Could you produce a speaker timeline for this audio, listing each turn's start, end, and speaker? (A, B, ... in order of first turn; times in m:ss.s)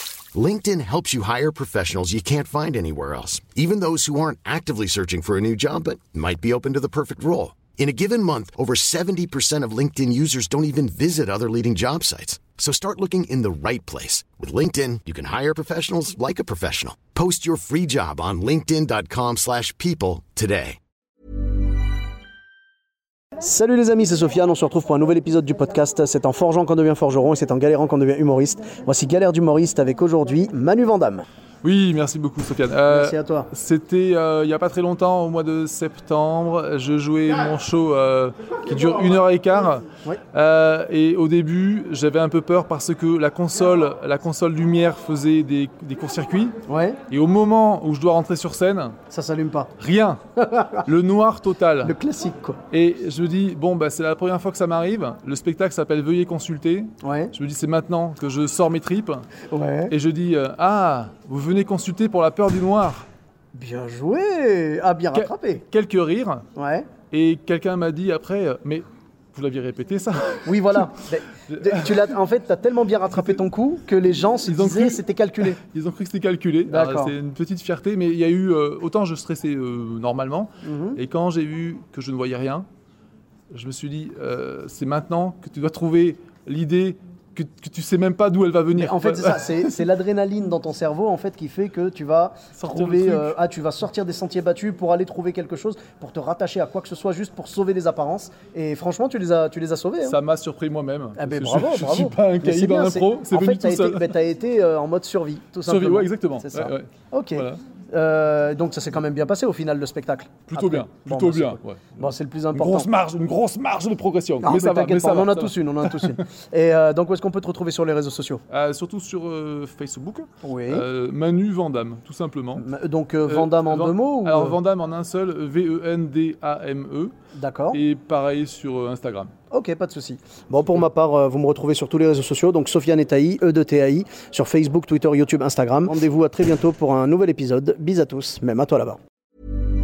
0:00.3-0:20.8 A
0:23.4-0:31.2 B
0:31.6-0:46.6 C
0:32.9-0:33.5 B
0:46.7-0:47.0 B
0:47.1-0:49.0 C
0:49.1-0:49.7 B
0:49.8-0:51.9 C
0:50.4-0:50.8 B
0:51.8-0:52.6 B
0:52.7-0:59.3 C
0:57.0-0:57.3 B
0:59.5-0:59.9 B
0:59.9-1:03.1 C
1:03.5-1:05.6 B
1:05.1-1:06.5 C
1:06.6-1:06.9 B
1:07.1-1:12.1 C
1:10.4-1:15.6 B
1:14.5-1:22.7 C
1:16.7-1:17.1 B
1:20.6-1:21.0 B
1:23.5-1:29.8 C
1:28.7-1:40.2 B
1:32.5-1:33.3 C
1:40.0-1:44.1 C
1:41.2-1:52.9 B
1:45.6-1:47.6 C
1:50.4-1:51.9 C
1:52.5-1:56.2 C
1:54.4-1:58.4 B
1:58.5-2:02.6 C
2:00.4-2:00.8 B
2:02.6-2:04.6 B
2:03.3-2:07.1 C
2:07.3-2:07.8 B
2:07.7-2:09.3 C
2:09.5-2:19.0 B